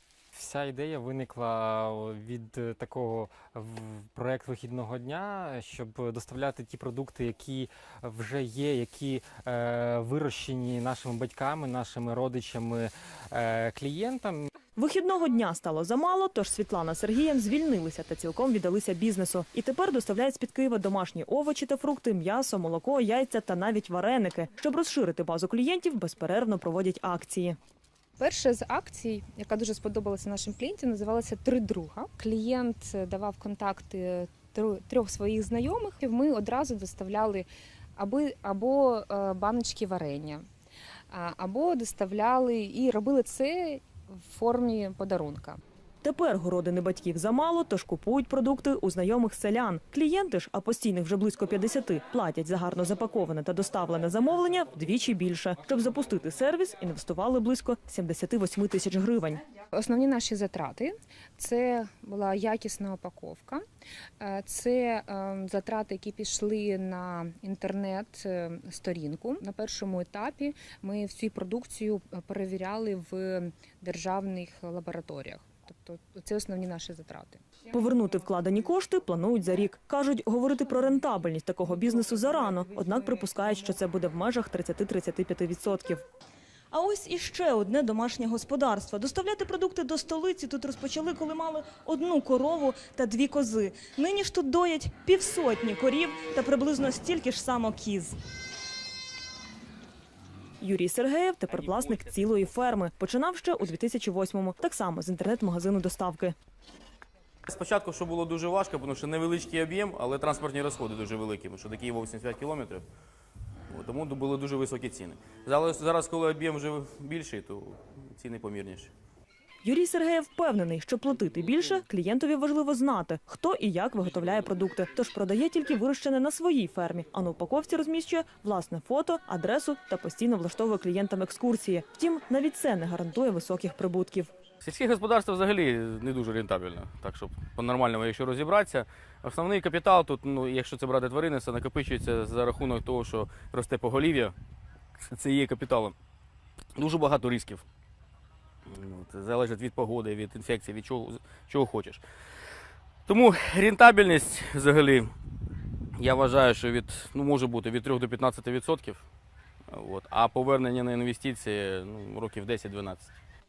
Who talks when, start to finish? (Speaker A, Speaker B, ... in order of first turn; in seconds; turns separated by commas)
Speaker A: 0.3-14.5, Speaker B: 14.8-27.6, Speaker C: 28.2-40.4, Speaker C: 41.1-45.6, Speaker B: 46.0-59.4, Speaker C: 59.7-63.6, Speaker C: 64.2-77.4, Speaker B: 77.7-86.0, Speaker B: 86.7-98.2, Speaker B: 100.6-106.3, Speaker D: 101.5-102.0, Speaker D: 107.5-112.8, Speaker D: 113.7-118.9, Speaker B: 119.6-134.3, Speaker D: 134.6-144.3, Speaker D: 145.0-145.9, Speaker D: 146.8-147.6, Speaker D: 148.7-152.0, Speaker D: 153.1-155.1, Speaker D: 156.0-159.0, Speaker D: 159.7-163.1